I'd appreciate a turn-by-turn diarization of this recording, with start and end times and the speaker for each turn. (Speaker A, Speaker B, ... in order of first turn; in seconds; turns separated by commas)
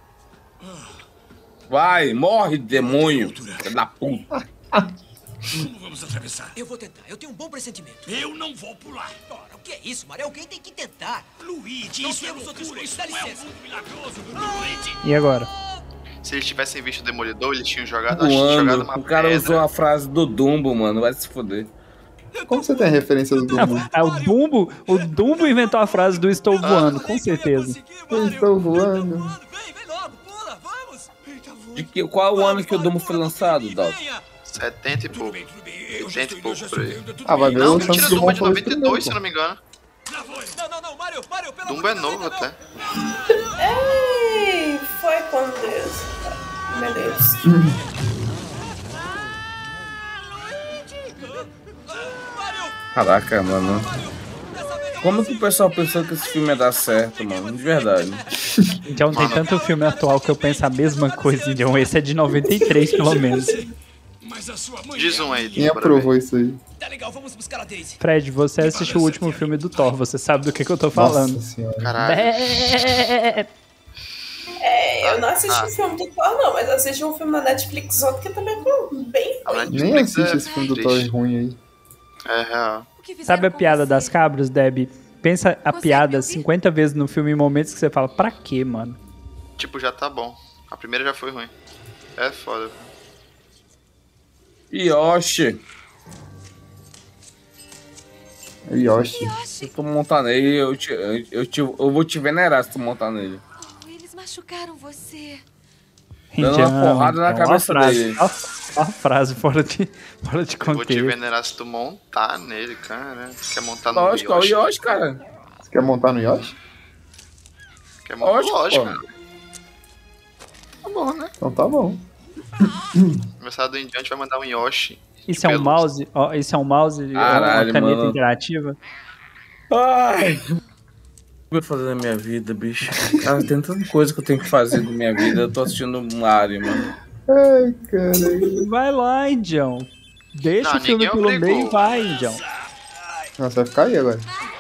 Speaker A: 1.7-4.2, Speaker B: 2.9-3.7, Speaker B: 5.5-6.5, Speaker C: 6.5-8.2, Speaker B: 8.1-9.3, Speaker C: 9.3-11.3, Speaker B: 11.4-15.0, Speaker C: 11.9-13.5, Speaker C: 14.3-14.6, Speaker D: 15.0-15.5, Speaker E: 16.2-19.7, Speaker A: 18.1-21.7, Speaker C: 22.3-34.2, Speaker F: 22.5-23.9, Speaker D: 23.5-27.8, Speaker E: 26.6-27.0, Speaker F: 28.1-29.4, Speaker A: 31.7-34.0, Speaker E: 34.5-39.6, Speaker B: 35.1-38.2, Speaker F: 37.2-39.2, Speaker B: 40.3-40.5, Speaker C: 40.5-42.5, Speaker E: 41.6-42.6, Speaker G: 43.5-47.5, Speaker F: 47.4-47.8, Speaker A: 52.9-53.9, Speaker C: 54.0-55.3, Speaker A: 55.0-58.2, Speaker D: 58.8-63.6, Speaker E: 59.1-59.5, Speaker C: 61.3-61.9, Speaker G: 62.4-63.7, Speaker C: 63.0-63.4, Speaker B: 64.2-65.6, Speaker C: 64.7-65.5, Speaker E: 64.9-66.1, Speaker F: 65.5-66.6, Speaker C: 66.8-68.0, Speaker D: 68.0-71.4, Speaker B: 68.6-69.1, Speaker C: 68.7-69.5, Speaker F: 70.9-71.9, Speaker E: 71.8-72.7, Speaker D: 72.0-73.5, Speaker G: 74.6-79.7, Speaker E: 75.0-75.7, Speaker E: 79.4-81.1, Speaker F: 79.7-81.6, Speaker H: 80.3-80.8, Speaker E: 82.2-82.9, Speaker H: 83.0-84.2, Speaker D: 83.2-89.0, Speaker H: 85.7-86.5, Speaker E: 89.6-91.5, Speaker E: 92.2-92.9, Speaker A: 94.7-95.6, Speaker F: 98.7-99.3, Speaker H: 99.0-99.7, Speaker A: 99.6-103.4, Speaker H: 103.6-105.4, Speaker D: 106.3-111.2, Speaker A: 106.4-108.2, Speaker E: 110.6-114.6, Speaker A: 113.9-115.2, Speaker F: 115.6-116.5, Speaker E: 118.0-119.0, Speaker A: 118.2-119.0, Speaker E: 120.8-121.3, Speaker F: 121.4-122.0, Speaker E: 123.4-125.8, Speaker D: 125.3-128.8, Speaker A: 127.1-128.2, Speaker A: 129.7-130.5, Speaker A: 131.5-136.9, Speaker F: 133.1-133.4, Speaker F: 137.3-138.7, Speaker D: 138.5-142.4, Speaker E: 140.6-141.8, Speaker F: 143.4-144.2